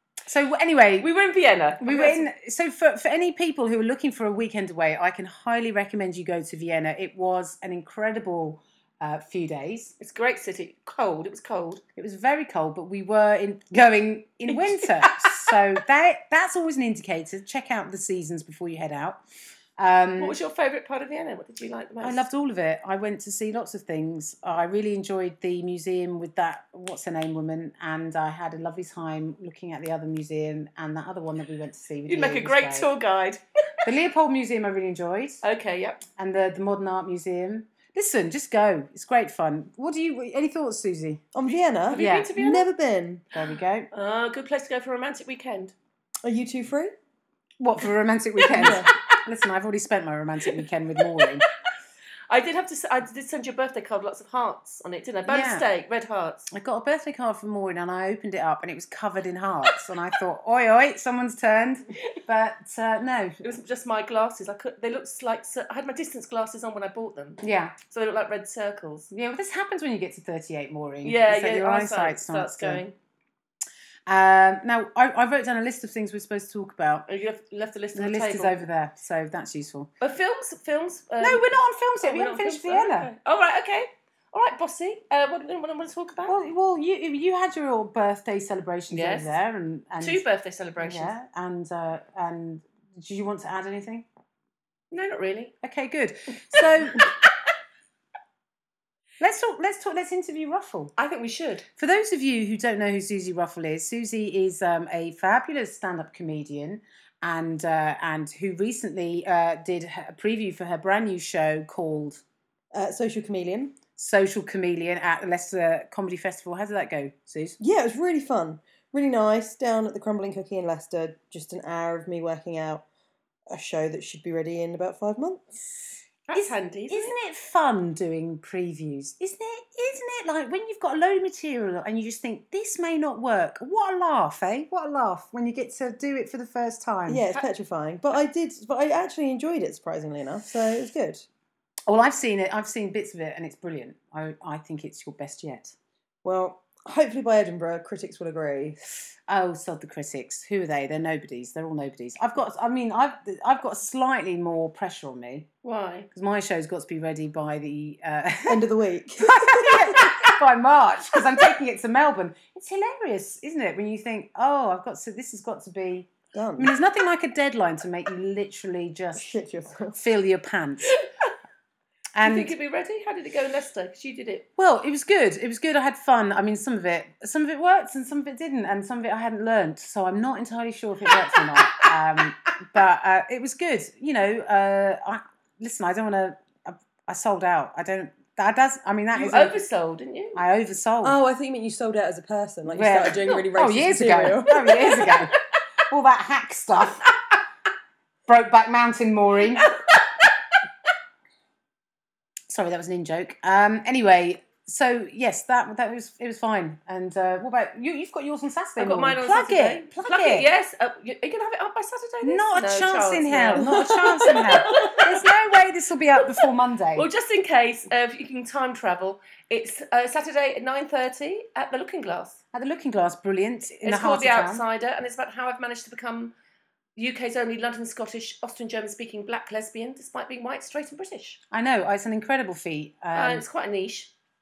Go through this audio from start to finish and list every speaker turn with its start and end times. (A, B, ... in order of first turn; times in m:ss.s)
0:00.2-0:01.1 A
0:01.0-0:02.3 B
0:01.8-0:09.9 A
0:10.0-0:11.8 B
0:12.0-0:19.2 A
0:14.5-0:15.5 B
0:19.8-0:20.4 A
0:20.2-0:22.2 B
0:22.0-0:32.9 A
0:32.0-0:33.4 B
0:33.8-0:35.4 A
0:35.4-0:36.0 B
0:36.2-0:41.2 A
0:41.3-0:43.3 C
0:41.5-0:42.7 B
0:42.0-0:42.3 A
0:43.3-0:43.9 A
0:43.9-0:45.7 B
0:46.2-0:46.9 C
0:47.6-0:51.4 A
0:48.4-0:49.2 B
0:48.5-0:48.9 C
0:50.5-0:51.3 B
0:52.3-0:56.5 B
0:55.2-0:55.6 A
0:56.5-1:03.4 A
1:03.4-1:09.1 B
1:07.4-1:07.7 A
1:09.1-1:12.8 A
1:11.0-1:12.9 B
1:14.1-1:17.1 A
1:17.1-1:18.6 B
1:17.9-1:19.9 A
1:20.0-1:26.4 B
1:21.2-1:23.1 A
1:26.3-1:30.2 A
1:28.9-1:29.4 B
1:30.0-1:31.1 B
1:30.8-1:34.0 A
1:34.9-1:35.5 B
1:35.6-1:37.1 A
1:36.6-1:37.0 B
1:39.2-1:40.9 A
1:41.0-1:41.6 B
1:41.8-1:52.2 A
1:52.7-1:53.8 C
1:54.0-1:57.6 A
1:57.6-2:02.8 C
2:03.5-2:05.4 C
2:06.3-2:07.1 B
2:06.3-2:17.2 A
2:17.1-2:21.2 C
2:21.9-2:25.7 A
2:26.2-2:28.8 C
2:29.3-2:35.5 A
2:35.6-2:36.1 B
2:36.1-2:38.6 A
2:38.5-2:40.3 C
2:39.2-2:49.3 A
2:46.3-2:46.7 C
2:49.1-2:50.0 C
2:49.9-2:50.9 A
2:50.9-2:51.3 B
2:52.1-2:52.5 A
2:52.2-2:54.4 B
2:54.6-3:09.6 A
3:09.1-3:10.4 B
3:10.3-3:11.2 A
3:11.0-3:14.9 C
3:12.6-3:15.3 A
3:14.6-3:15.3 B
3:15.9-3:17.0 A
3:18.3-3:19.7 A
3:19.5-3:20.3 B
3:22.5-3:30.5 A
3:28.8-3:35.2 B
3:32.2-3:37.1 A
3:33.6-3:34.5 C
3:36.2-3:36.4 B
3:36.9-3:42.4 B
3:42.5-3:44.6 A
3:43.8-3:46.3 B
3:47.0-3:51.4 B
3:51.5-3:53.4 A
3:53.1-3:54.1 B